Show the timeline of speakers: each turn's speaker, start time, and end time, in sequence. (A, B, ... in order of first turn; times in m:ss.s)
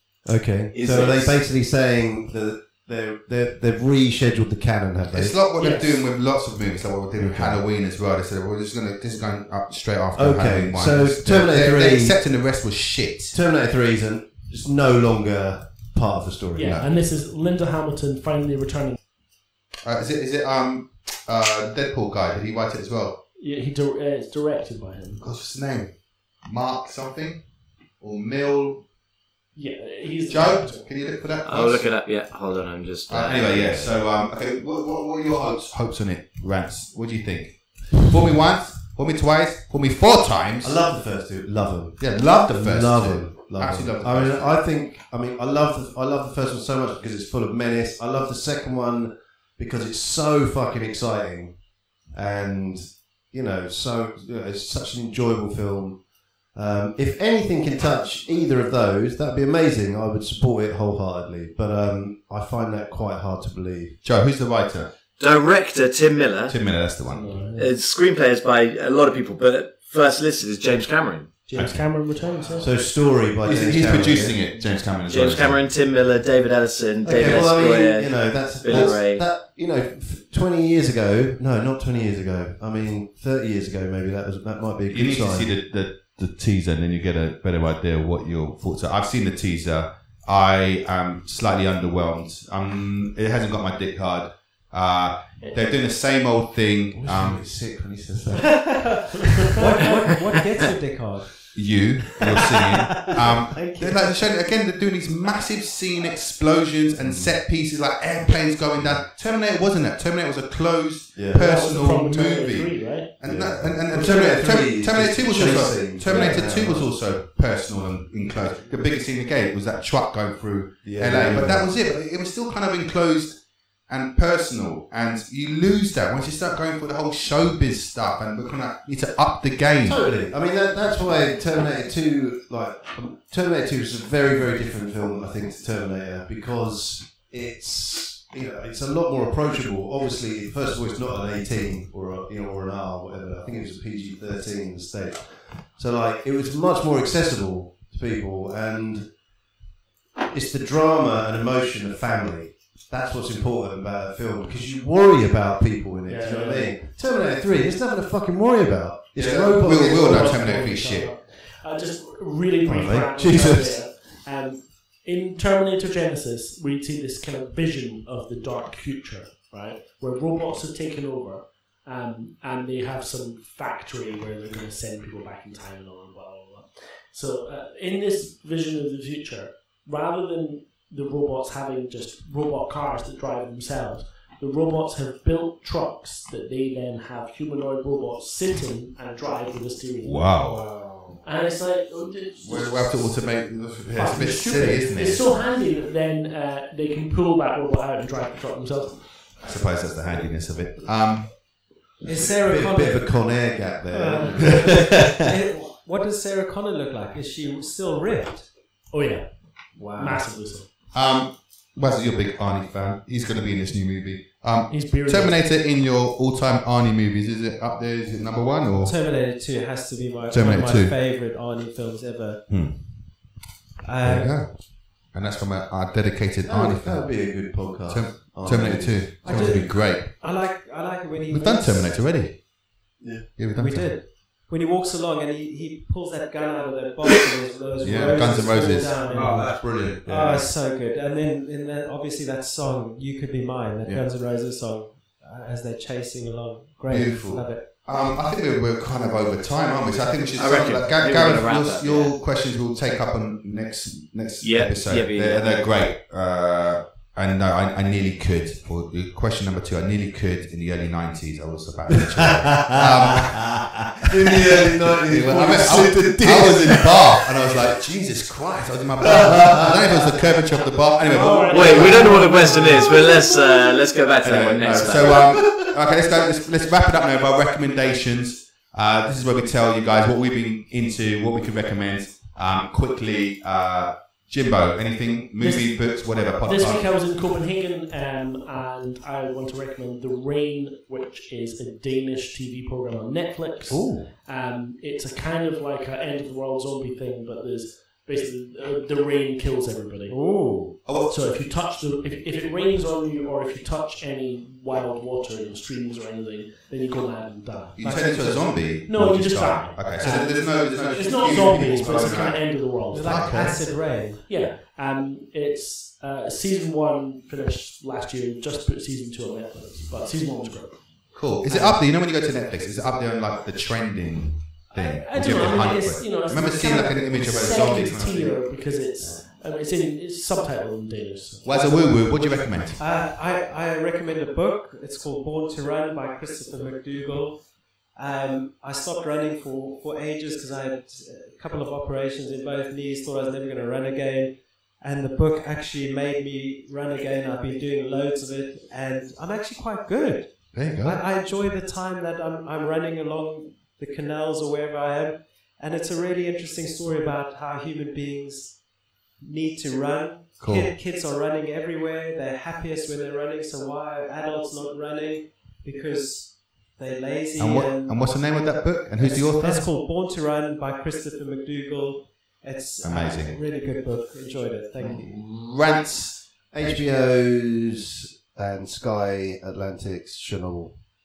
0:00.2-0:05.4 A
0:00.7-0:01.4 B
0:05.1-0:13.4 C
0:05.6-0:06.0 D
0:07.2-0:07.6 A
0:10.1-0:12.2 A
0:13.3-0:16.8 A
0:16.6-0:19.0 D
0:16.6-0:16.9 C
0:19.8-0:23.2 C
0:23.4-0:25.2 D
0:25.2-0:27.4 C
0:28.0-0:28.8 C
0:29.6-0:30.9 D
0:30.3-0:31.9 C
0:31.4-0:33.9 B
0:33.1-0:40.8 C
0:40.6-0:56.0 A
0:42.0-0:44.6 C
0:56.5-1:04.0 A
1:04.0-1:04.9 C
1:05.2-1:06.6 B
1:06.5-1:07.4 C
1:07.1-1:07.7 D
1:07.6-1:11.4 B
1:11.5-1:12.8 D
1:11.5-1:11.9 C
1:12.6-1:14.4 A
1:13.4-1:15.7 C
1:15.1-1:19.2 B
1:17.0-1:25.5 A
1:24.9-1:37.4 C
1:36.9-1:39.0 A
1:38.5-1:41.5 E
1:41.5-2:10.1 C
1:42.3-1:44.1 E
1:47.0-1:47.4 A
1:51.1-1:51.5 A
1:51.3-1:53.1 D
1:53.2-1:56.9 A
1:56.1-1:56.4 D
2:00.8-2:01.7 A
2:09.8-2:29.0 A
2:30.3-2:40.4 A
2:36.1-2:36.8 D
2:39.2-2:41.1 C
2:39.7-3:10.4 D
2:42.6-2:43.8 A
3:10.0-3:10.7 C
3:11.2-3:13.2 D
3:12.4-3:15.3 C
3:13.9-3:19.1 D
3:14.5-3:14.8 A
3:19.4-3:21.4 C
3:22.0-3:28.4 E
3:22.0-3:25.2 A
3:24.1-3:24.5 D
3:28.9-3:30.7 D
3:29.8-3:30.2 E
3:30.9-3:39.0 C
3:34.7-3:35.4 D
3:38.8-3:42.4 E
3:40.3-3:41.0 C
3:42.5-3:43.3 C
3:43.8-3:44.5 E
3:44.0-3:50.2 C
3:46.4-3:49.6 A
3:49.2-3:51.9 E
3:51.3-3:52.4 C
3:53.0-3:53.3 A
3:53.4-3:54.0 C
3:53.6-4:07.6 E
3:57.8-4:00.0 C
3:59.0-4:00.5 A
4:06.9-4:23.5 C
4:10.3-4:12.2 B
4:14.4-4:15.6 B
4:22.4-4:22.7 A
4:23.2-4:27.8 A
4:24.4-4:32.5 C
4:29.0-4:30.4 A
4:31.0-4:33.3 D
4:31.4-4:35.3 B
4:34.2-4:46.9 C
4:34.8-4:35.7 A
4:45.4-4:45.8 D
4:46.4-5:00.2 D
4:53.7-4:54.0 C
5:00.1-5:00.7 E
5:00.8-5:01.2 C
5:00.9-5:07.9 D
5:07.8-5:13.6 C
5:07.8-5:08.6 E
5:08.9-5:20.7 D
5:11.0-5:11.4 E
5:12.9-5:14.2 E
5:21.1-5:28.4 C
5:21.4-5:21.8 E
5:24.7-5:32.4 D
5:31.4-5:32.8 C
5:32.8-5:37.4 E
5:38.0-5:58.6 E
5:50.5-5:51.0 C
5:59.2-6:15.1 E
6:00.4-6:00.7 C
6:07.4-6:09.7 C
6:12.8-6:13.4 C
6:14.8-6:16.2 C
6:16.5-6:20.7 A